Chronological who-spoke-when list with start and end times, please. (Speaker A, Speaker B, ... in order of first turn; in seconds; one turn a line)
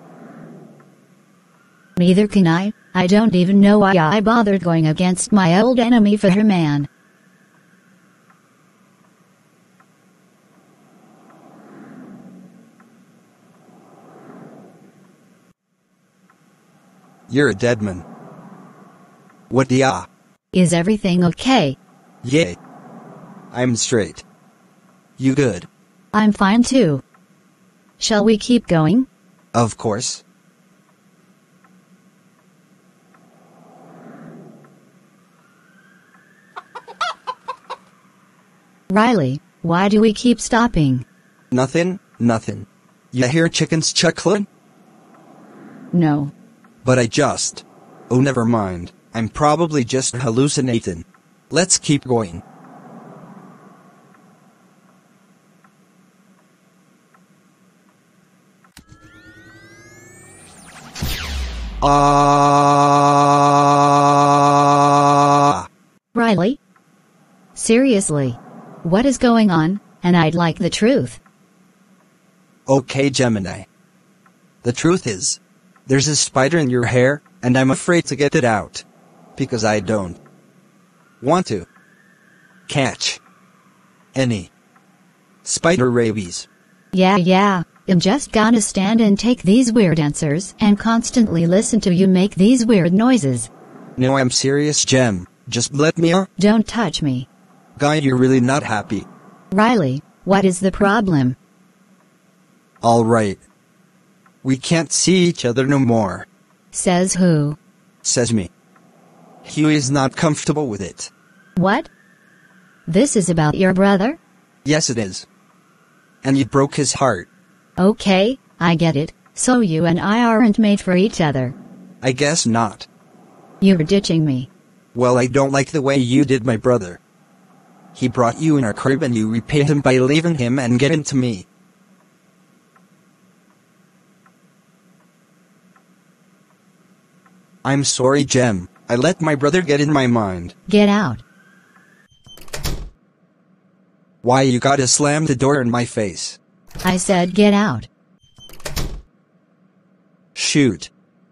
Speaker A: 2.0-6.9
Speaker B: 17.3-18.1
Speaker B: 19.5-20.1
Speaker A: 20.5-21.8
Speaker B: 22.2-22.6
Speaker B: 23.5-24.2
Speaker B: 25.2-25.7
Speaker A: 26.1-27.0
Speaker A: 28.0-29.1
Speaker B: 29.5-30.2
Speaker A: 38.9-41.0
Speaker B: 41.5-44.5
Speaker A: 45.9-46.3
Speaker B: 46.8-52.4
Speaker B: 61.8-65.7
Speaker A: 66.1-66.6
Speaker A: 67.5-71.2
Speaker B: 72.7-73.7
Speaker B: 74.6-78.8
Speaker B: 79.3-80.2
Speaker B: 81.2-81.7
Speaker B: 82.7-83.2
Speaker B: 84.1-84.5
Speaker B: 85.4-86.5
Speaker A: 86.9-93.5
Speaker B: 94.0-96.3
Speaker A: 96.4-97.3
Speaker B: 97.8-99.1
Speaker A: 99.5-101.4
Speaker B: 102.8-103.4
Speaker B: 104.4-106.2
Speaker A: 106.7-107.6
Speaker B: 108.0-108.5
Speaker B: 109.4-111.1
Speaker A: 111.6-111.9
Speaker A: 112.8-114.2
Speaker B: 114.6-115.3
Speaker B: 116.2-117.3
Speaker A: 117.8-121.5
Speaker B: 122.0-122.9
Speaker A: 123.6-124.5
Speaker B: 124.9-127.0
Speaker B: 127.9-131.4
Speaker B: 137.6-140.5
Speaker A: 140.7-141.2
Speaker B: 144.2-146.4
Speaker A: 146.8-147.9
Speaker B: 150.3-150.9